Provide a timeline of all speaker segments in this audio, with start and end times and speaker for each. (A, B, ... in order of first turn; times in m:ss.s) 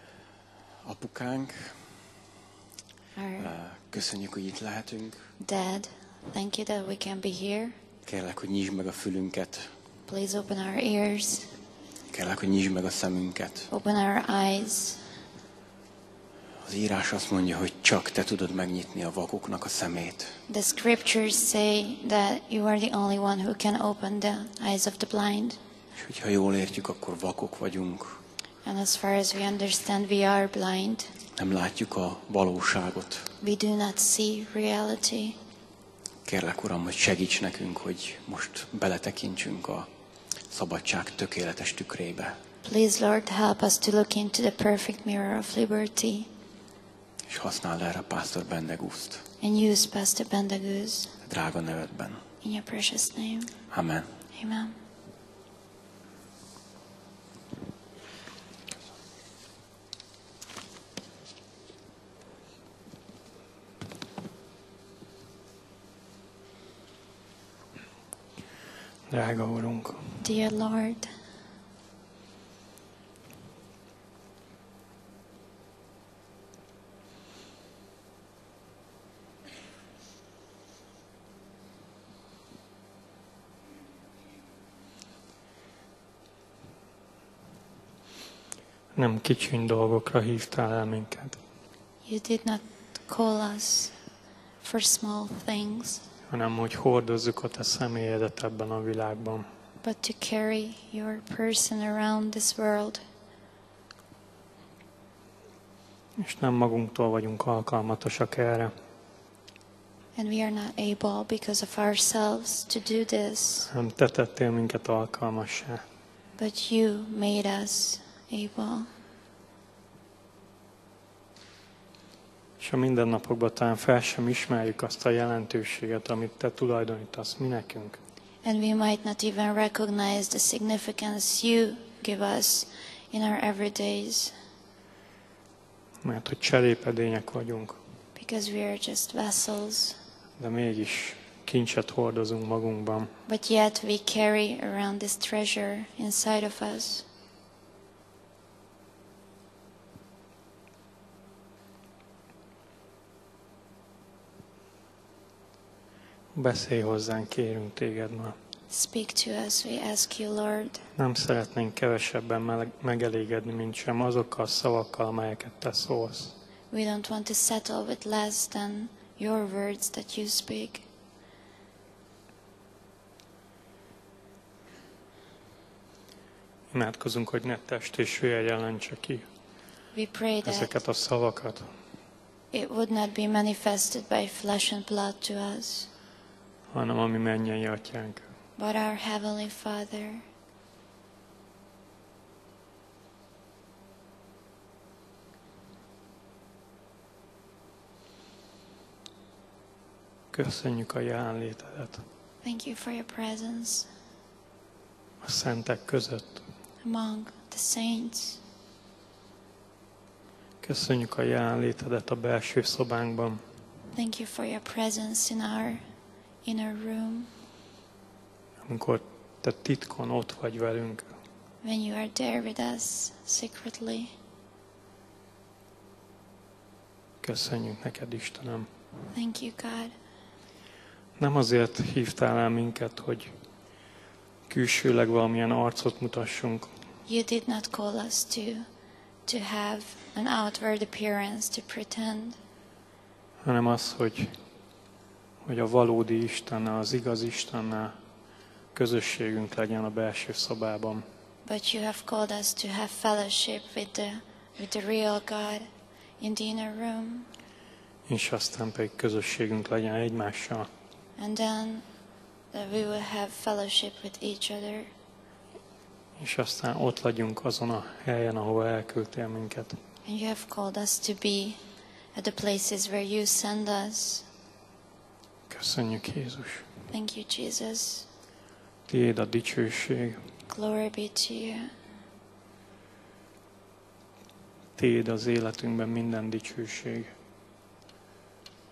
0:00.8-0:02.0 A
0:03.2-0:03.5 B
0:03.4-0:05.2 A
0:05.4-0:07.8 B
0:08.0-0:09.7 A
0:10.1-0:11.5 B
0:12.1-0:13.7 A
0:13.7-0:15.0 B
0:16.6-0:20.4 A
0:20.5-0:25.6 B
0:26.0-0:28.2 A
0:28.6-0:31.1 B
0:31.4-0:33.3 A
0:33.4-0:35.4 B
0:36.2-0:39.9 A
0:40.5-0:42.4 A
0:42.6-0:46.3 B
0:47.3-0:49.3 A
0:49.4-0:51.2 B
0:51.3-0:52.2 A
0:52.4-0:53.6 B
0:53.7-0:54.1 A
0:54.3-0:54.8 B
1:09.1-1:10.2 C
1:10.2-1:11.1 B
1:29.0-1:31.4 C
1:32.1-1:34.0 B
1:34.6-1:36.0 B
1:36.3-1:39.5 C
1:39.8-1:43.0 B
1:46.2-1:48.7 C
1:50.2-1:53.7 B
1:53.7-1:55.8 C
1:56.4-1:58.9 B
2:02.6-2:08.0 C
2:08.4-2:14.4 B
2:16.0-2:17.8 C
2:18.2-2:20.0 B
2:20.4-2:23.1 C
2:23.3-2:27.1 B
2:36.4-2:38.4 C
2:38.7-2:40.8 B
2:41.0-2:46.3 C
2:46.7-2:50.9 B
2:56.7-2:59.2 C
2:59.9-3:00.7 B
3:00.4-3:01.7 C
3:02.5-3:05.9 B
3:06.7-3:08.3 C
3:08.6-3:10.3 B
3:20.3-3:22.0 C
3:22.4-3:23.9 B
3:25.2-3:26.4 C
3:26.8-3:28.4 B
3:30.6-3:33.4 C
3:33.9-3:35.8 B
3:36.4-3:37.3 B
3:38.6-3:41.1 C
3:41.6-3:44.1 B
3:47.2-3:48.7 C
3:49.1-3:49.9 B
3:51.2-3:53.3 C
3:54.5-3:56.7 C
3:57.1-3:58.7 B
3:59.3-4:02.4 B
4:03.4-4:04.4 C
4:05.4-4:08.0 C
4:08.7-4:11.0 C
4:11.4-4:15.7 B
4:16.2-4:17.3 B
4:18.1-4:20.7 C
4:21.2-4:21.8 B
4:22.5-4:24.9 B
4:26.2-4:29.8 C
4:30.0-4:31.6 B
4:32.2-4:34.3 B
4:35.5-4:36.7 C
4:36.9-4:38.1 B
4:38.9-4:40.2 C
4:40.5-4:41.7 B
4:44.8-4:47.1 C